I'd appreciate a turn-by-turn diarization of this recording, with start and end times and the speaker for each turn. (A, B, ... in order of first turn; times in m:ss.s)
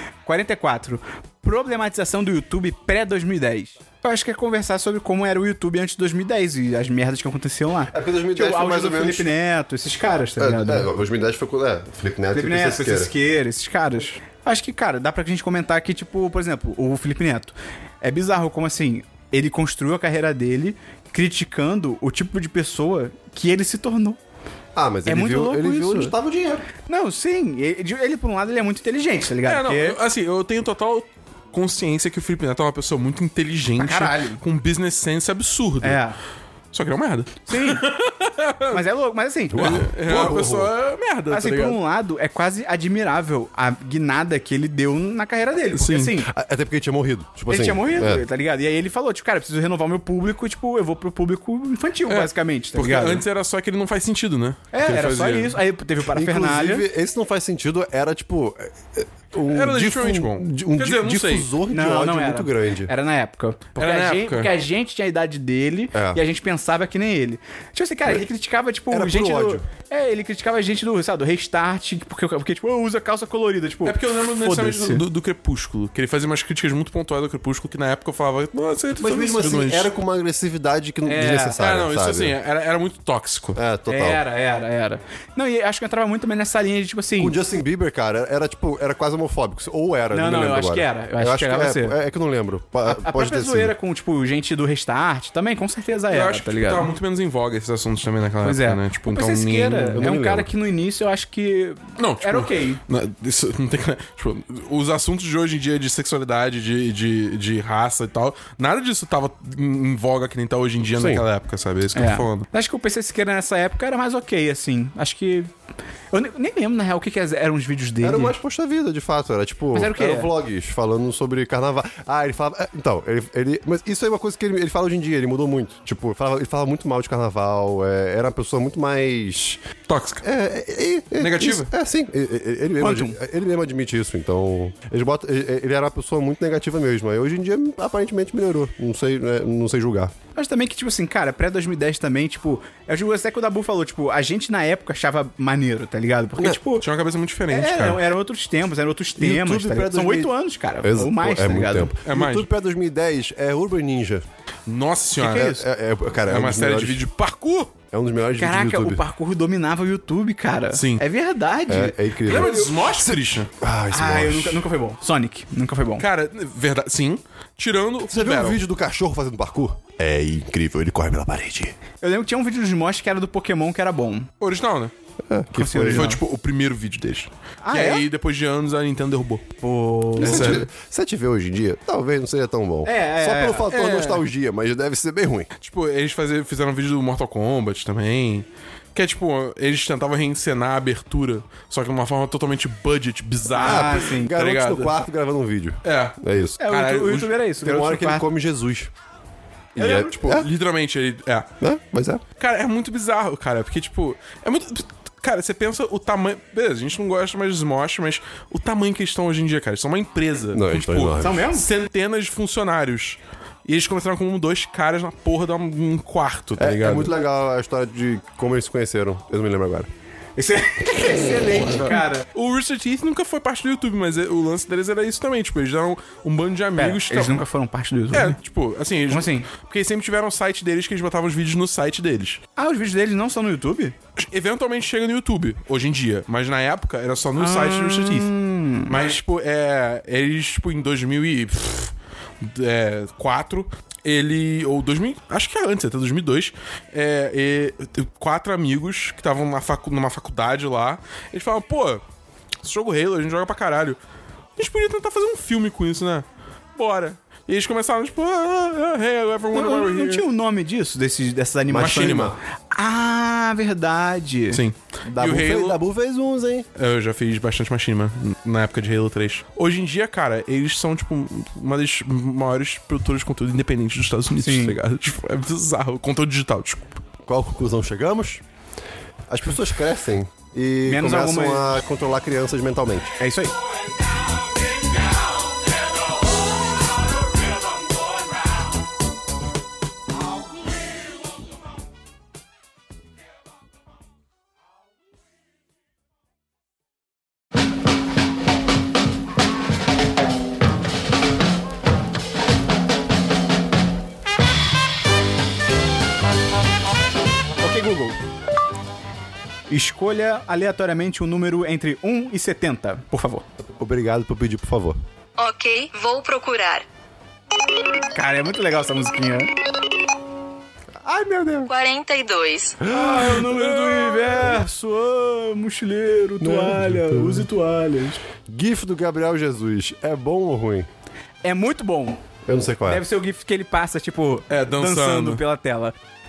0:00.2-0:10.9 A
0:07.9-0:09.3 B
0:10.4-0:13.1 B
0:12.3-0:24.2 A
0:24.7-0:26.6 B
0:25.1-0:26.1 A
0:26.9-0:30.0 A
0:29.4-0:36.0 C
0:33.8-0:34.4 A
0:35.8-0:36.2 A
0:36.7-0:38.8 C
0:37.5-0:37.9 A
0:38.7-0:39.9 A
0:39.5-0:40.7 B
0:39.6-0:41.8 C
0:41.3-0:46.3 A
0:45.7-0:46.2 C
0:46.3-0:48.2 B
0:47.5-0:53.2 A
0:52.1-0:55.6 C
0:54.7-0:56.9 A
0:56.1-1:02.9 B
0:59.5-1:01.5 C
1:01.7-1:15.0 A
1:03.8-1:04.5 C
1:05.9-1:06.2 B
1:08.9-1:09.6 B
1:13.8-1:19.9 C
1:19.0-1:22.3 B
1:21.0-1:21.6 A
1:21.6-1:23.6 C
1:23.6-1:24.2 B
1:23.9-1:27.4 A
1:27.2-1:33.7 B
1:30.1-1:32.0 A
1:32.9-1:36.9 A
1:36.1-1:40.0 C
1:38.4-1:42.8 A
1:39.9-1:40.5 B
1:42.0-1:52.4 C
1:50.9-1:51.2 B
1:51.9-1:55.5 A
1:56.1-1:58.3 A
1:58.0-2:09.6 B
1:59.7-2:00.3 A
2:09.9-2:10.2 C
2:10.2-2:20.1 B
2:11.2-2:11.7 C
2:12.8-2:13.2 A
2:20.4-2:26.8 A
2:26.8-2:28.0 C
2:27.5-2:31.9 A
2:29.2-2:34.2 B
2:32.0-2:32.4 C
2:34.7-2:35.6 C
2:35.2-2:35.6 A
2:35.4-2:37.0 B
2:36.3-2:37.7 C
2:37.9-2:39.0 B
2:38.4-2:42.7 A
2:40.7-2:41.0 C
2:41.7-2:44.6 B
2:42.2-2:43.5 C
2:43.9-2:46.0 A
2:46.0-2:48.6 C
2:48.1-2:51.7 B
2:52.0-2:54.3 A
2:54.4-2:54.9 C
2:55.3-2:56.2 B
2:55.6-2:56.2 A
2:55.8-2:59.4 C
2:57.6-2:58.0 A
2:59.6-3:00.6 A
3:00.2-3:05.5 B
3:00.2-3:00.6 C
3:02.8-3:03.7 A
3:03.7-3:04.2 C
3:05.6-3:15.0 C
3:13.5-3:14.3 A
3:13.6-3:16.6 B
3:15.8-3:17.4 C
3:16.6-3:18.2 A
3:17.6-3:18.9 B
3:19.7-3:20.5 B
3:19.8-3:21.5 C
3:21.6-3:22.2 B
3:22.4-3:37.1 C
3:30.5-3:31.4 B
3:31.2-3:31.7 A
3:36.6-3:39.9 B
3:40.4-3:42.3 A
3:41.2-3:47.4 C
3:46.8-3:48.4 A
3:48.1-3:52.4 C
3:49.1-3:49.5 A
3:52.6-3:54.0 A
3:54.2-3:58.3 C
3:57.4-3:59.0 A
3:58.9-4:12.0 C
4:12.6-4:14.0 C
4:14.6-4:20.2 C
4:19.5-4:24.6 A
4:21.7-4:22.4 B
4:21.8-4:22.3 C
4:24.5-4:25.8 C
4:25.1-4:26.6 B
4:26.7-4:37.0 C
4:34.4-4:34.8 A
4:37.2-4:38.4 B
4:39.3-4:43.2 B
4:40.9-4:41.7 A
4:43.2-4:43.5 A
5:07.6-5:08.2 A
5:09.7-5:13.4 A
5:13.8-5:15.0 B
5:15.4-5:16.8 D
5:18.1-5:19.5 A
5:21.0-5:21.7 B
5:21.6-5:22.8 D
5:22.9-5:28.2 A
5:22.9-5:23.6 B
5:26.4-5:27.5 B
5:28.4-5:30.9 B
5:31.4-5:32.2 A
5:32.4-5:33.0 B
5:32.9-5:35.9 A
5:34.5-5:35.4 C